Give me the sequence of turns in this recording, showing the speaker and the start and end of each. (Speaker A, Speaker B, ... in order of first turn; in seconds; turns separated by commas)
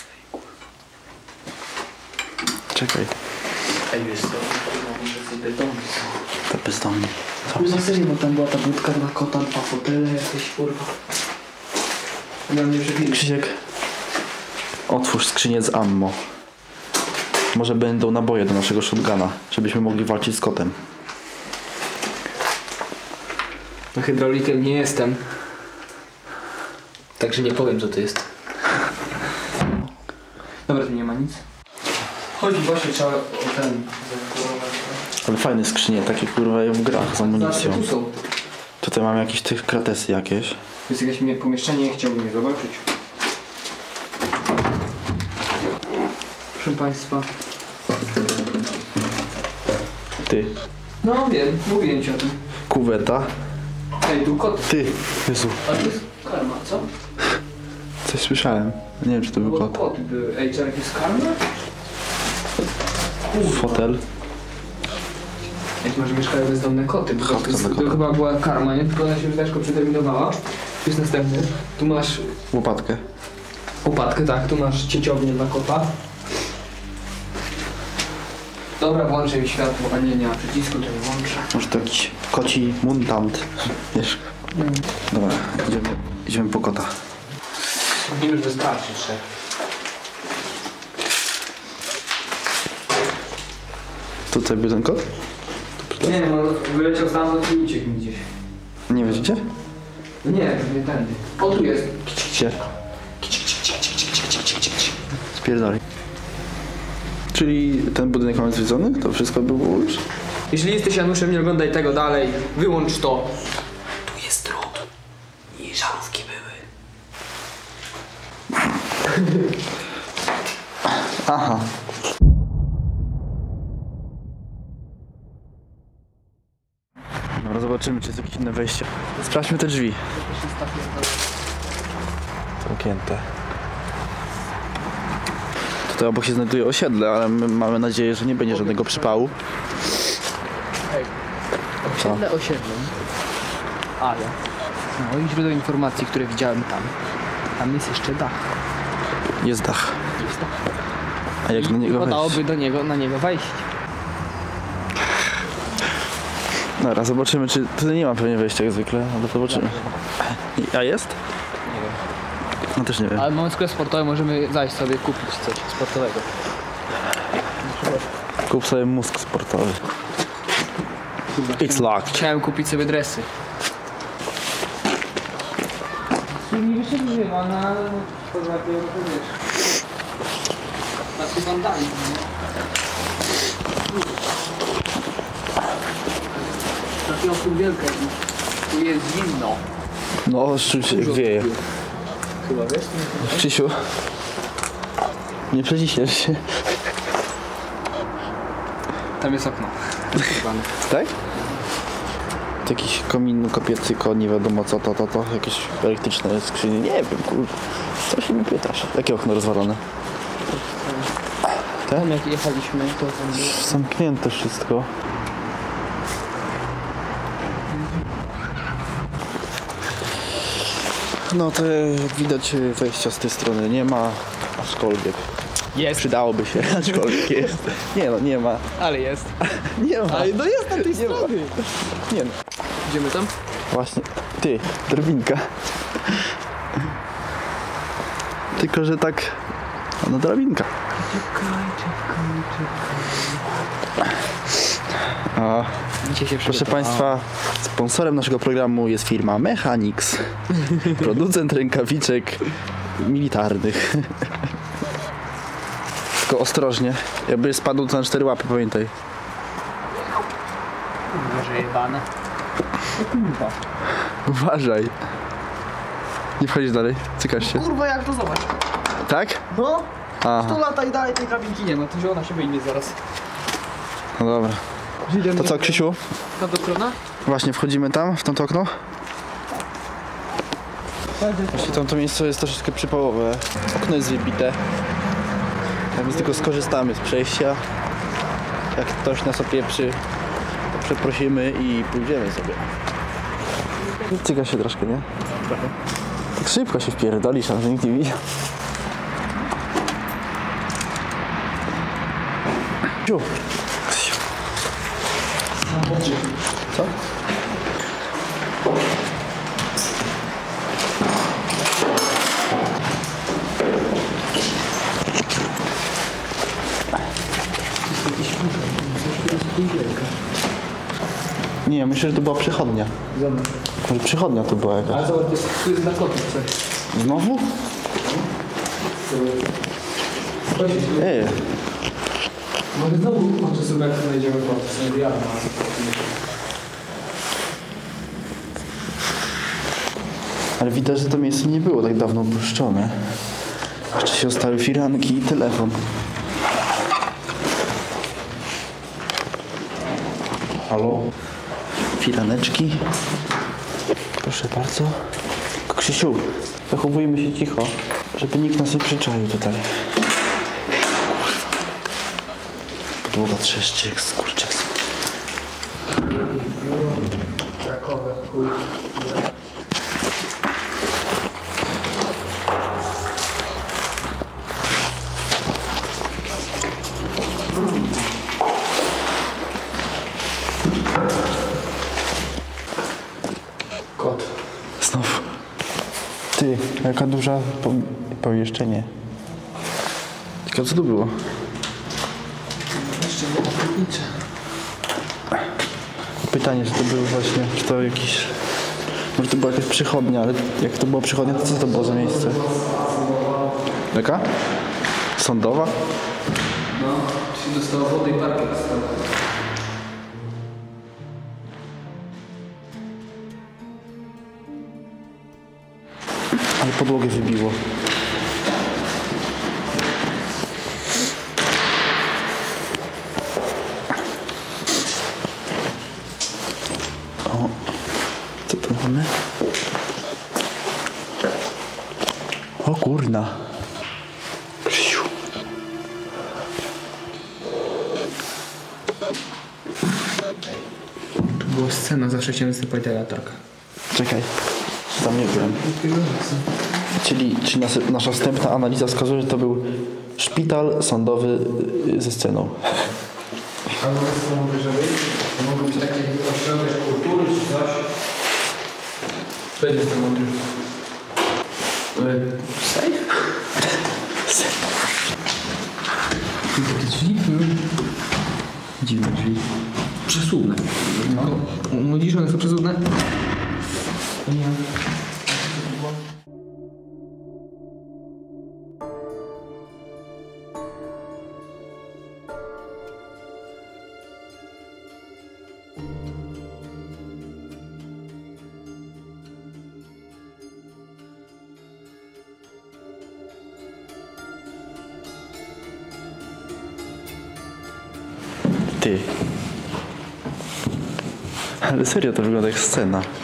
Speaker A: 2.7-3.1, Speaker B: 3.9-6.1, Speaker A: 6.5-7.6, Speaker B: 7.5-10.9, Speaker B: 12.5-13.3, Speaker A: 13.1-13.6, Speaker A: 14.9-16.2, Speaker A: 17.5-20.8, Speaker B: 23.9-25.2, Speaker B: 27.2-28.3, Speaker B: 30.7-31.4, Speaker B: 32.3-35.0, Speaker A: 35.2-37.8, Speaker B: 37.0-38.1, Speaker A: 38.8-40.6, Speaker B: 40.9-42.8, Speaker B: 46.5-47.3, Speaker A: 50.2-50.5, Speaker B: 51.0-52.4, Speaker A: 52.7-53.3, Speaker B: 54.0-54.7, Speaker A: 54.7-55.7, Speaker B: 55.6-56.9, Speaker A: 58.0-59.8, Speaker B: 59.4-61.4, Speaker B: 63.3-63.8, Speaker A: 63.4-64.0, Speaker B: 65.8-72.3, Speaker A: 67.2-68.0, Speaker A: 72.5-73.0, Speaker B: 73.8-75.9, Speaker B: 78.8-81.6, Speaker A: 81.5-84.2, Speaker B: 84.5-84.8, Speaker A: 85.1-87.0, Speaker B: 87.8-89.2, Speaker A: 94.3-95.0, Speaker A: 95.8-96.1, Speaker B: 96.0-98.3, Speaker A: 98.9-99.4, Speaker B: 100.2-102.5, Speaker A: 102.2-102.5, Speaker B: 103.2-104.7, Speaker A: 105.3-105.8, Speaker A: 107.3-110.0, Speaker B: 110.5-113.3, Speaker B: 114.1-114.9, Speaker B: 115.5-116.7, Speaker B: 119.0-119.5, Speaker A: 120.8-121.7, Speaker A: 127.3-130.1, Speaker B: 130.1-131.3, Speaker A: 132.6-133.3, Speaker A: 135.9-139.3, Speaker B: 138.5-139.2, Speaker B: 141.8-142.9, Speaker B: 144.0-144.3, Speaker B: 144.9-146.9, Speaker B: 147.6-148.4, Speaker A: 149.4-150.0, Speaker B: 150.2-150.5, Speaker A: 151.4-152.4, Speaker B: 151.5-153.7, Speaker A: 156.8-161.2, Speaker B: 159.5-159.9, Speaker B: 161.7-162.0, Speaker A: 162.7-163.3, Speaker B: 163.1-166.3, Speaker B: 167.6-168.1, Speaker A: 168.5-169.8, Speaker B: 171.3-173.3, Speaker A: 171.6-172.2, Speaker B: 176.3-179.5, Speaker B: 181.2-182.3, Speaker B: 187.0-189.6, Speaker A: 190.2-191.5, Speaker B: 190.8-191.6, Speaker B: 192.4-193.5, Speaker A: 193.2-193.9, Speaker A: 195.5-196.8, Speaker B: 199.2-200.8, Speaker A: 200.8-201.1, Speaker A: 202.6-209.8, Speaker B: 210.5-211.1, Speaker B: 211.9-213.9, Speaker A: 213.3-214.9, Speaker A: 221.1-225.3, Speaker B: 225.7-227.4, Speaker A: 225.9-228.7, Speaker B: 228.8-229.3, Speaker A: 229.4-232.4, Speaker B: 230.1-231.7, Speaker B: 232.8-233.3, Speaker A: 233.7-236.3, Speaker A: 238.5-239.4, Speaker A: 240.0-240.7, Speaker B: 240.9-243.4, Speaker A: 245.2-245.8, Speaker B: 246.0-247.1, Speaker A: 246.4-254.5, Speaker A: 256.2-258.9, Speaker B: 261.1-262.1, Speaker B: 262.9-263.6, Speaker A: 264.2-264.9, Speaker A: 266.4-267.6, Speaker B: 267.4-268.5, Speaker A: 269.0-269.4, Speaker B: 269.5-273.0, Speaker A: 270.2-270.6, Speaker A: 274.1-274.6, Speaker B: 275.0-277.0, Speaker A: 275.2-276.0, Speaker A: 277.2-278.8, Speaker B: 281.1-281.8, Speaker A: 281.5-284.6, Speaker A: 285.9-287.6, Speaker B: 286.0-286.6, Speaker A: 288.7-290.0, Speaker A: 290.7-292.7, Speaker A: 293.9-295.1, Speaker B: 295.4-295.7, Speaker A: 296.4-298.2, Speaker A: 303.0-303.3, Speaker A: 303.9-304.2, Speaker B: 305.6-306.3, Speaker B: 317.9-320.1, Speaker A: 321.6-322.9, Speaker B: 323.1-323.6, Speaker A: 323.8-325.1, Speaker B: 324.9-326.6, Speaker A: 326.9-327.5, Speaker B: 329.0-329.5, Speaker B: 330.4-331.3, Speaker A: 331.0-331.4, Speaker B: 332.7-336.1, Speaker A: 340.6-343.2, Speaker A: 343.9-345.9, Speaker A: 350.6-351.1, Speaker A: 351.9-352.8, Speaker A: 354.2-355.1, Speaker A: 355.6-360.0, Speaker A: 363.1-364.7, Speaker B: 366.0-369.3, Speaker B: 383.9-384.3, Speaker A: 384.8-385.3, Speaker A: 386.3-388.9, Speaker A: 390.4-391.3, Speaker B: 392.7-394.2, Speaker A: 396.3-398.4, Speaker A: 398.9-402.4, Speaker B: 401.2-403.6, Speaker A: 403.9-404.3, Speaker A: 405.1-405.8, Speaker B: 406.7-409.0, Speaker A: 416.6-417.6, Speaker A: 427.2-427.6, Speaker A: 428.4-429.1, Speaker A: 432.6-433.4, Speaker A: 434.6-435.1, Speaker B: 441.4-443.4, Speaker A: 443.9-444.3, Speaker A: 444.9-445.6, Speaker B: 445.2-446.5, Speaker A: 447.0-452.9, Speaker B: 453.7-457.9, Speaker B: 459.6-460.3, Speaker B: 461.9-463.2, Speaker A: 464.2-464.6, Speaker B: 466.5-467.6, Speaker A: 468.8-469.4, Speaker B: 470.1-472.9, Speaker A: 471.0-471.3, Speaker B: 474.2-474.6, Speaker A: 498.8-499.1, Speaker A: 501.6-503.1